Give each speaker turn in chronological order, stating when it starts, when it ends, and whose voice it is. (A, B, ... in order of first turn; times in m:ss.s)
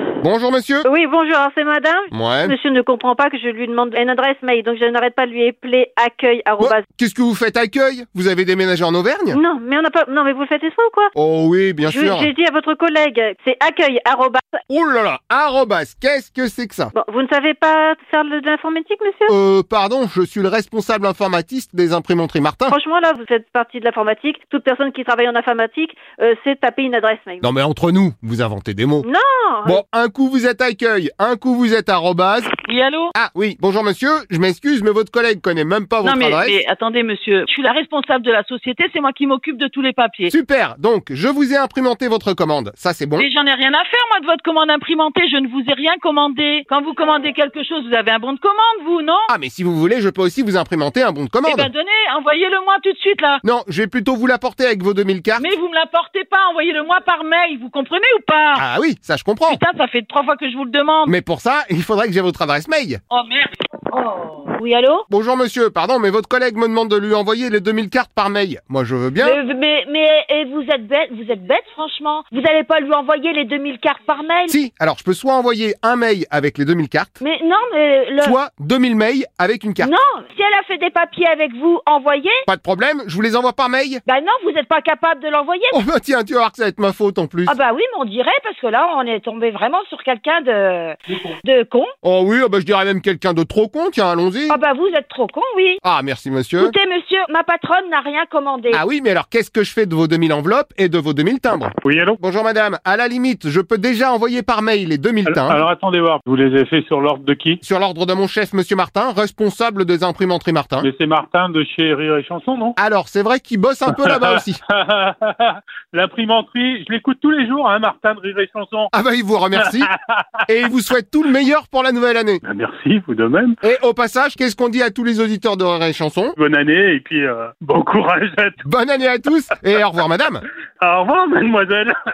0:00.2-0:00.9 A
0:00.8-0:06.8 B
0:02.1-0:02.6 A
0:06.6-0:09.4 A
0:09.3-0:11.1 B
0:11.2-0:12.3 A
0:11.8-0:14.6 B
0:14.7-0:16.9 A
0:16.9-0:19.3 B
0:19.3-0:22.8 A
0:22.7-0:27.4 B
0:27.4-0:29.1 A
0:29.0-0:29.8 B
0:29.7-0:32.5 A
0:32.6-0:33.1 C
0:33.2-0:36.6 A
0:36.0-0:40.3 C
0:40.3-0:43.3 A
0:43.2-0:49.3 C
0:49.3-0:51.7 A
0:51.5-0:53.4 C
0:53.4-0:55.5 A
0:55.4-0:58.6 C
0:58.6-0:59.6 A
0:59.5-1:01.1 C
1:01.1-1:03.0 A
1:03.1-1:03.5 C
1:04.0-1:05.0 D
1:05.1-1:09.4 A
1:09.2-1:14.6 D
1:14.5-1:17.2 A
1:17.2-1:18.4 D
1:18.2-1:19.9 A
1:19.8-1:22.4 D
1:22.5-1:24.0 A
1:24.1-1:25.8 D
1:25.7-1:27.6 A
1:27.5-1:31.9 D
1:32.0-1:34.6 A
1:34.5-1:35.8 D
1:35.8-1:36.7 A
1:36.6-1:38.8 D
1:38.7-1:45.6 A
1:41.8-1:42.2 E
1:45.2-1:47.6 E
1:47.6-1:50.9 A
1:50.8-1:52.8 E
1:52.8-1:54.6 A
1:53.9-1:58.9 E
1:58.9-1:59.9 A
1:59.6-2:00.0 E
2:00.5-2:02.4 A
2:02.5-2:03.6 E
2:03.6-2:06.4 A
2:06.4-2:08.6 E
2:08.6-2:10.4 A
2:10.8-2:11.9 E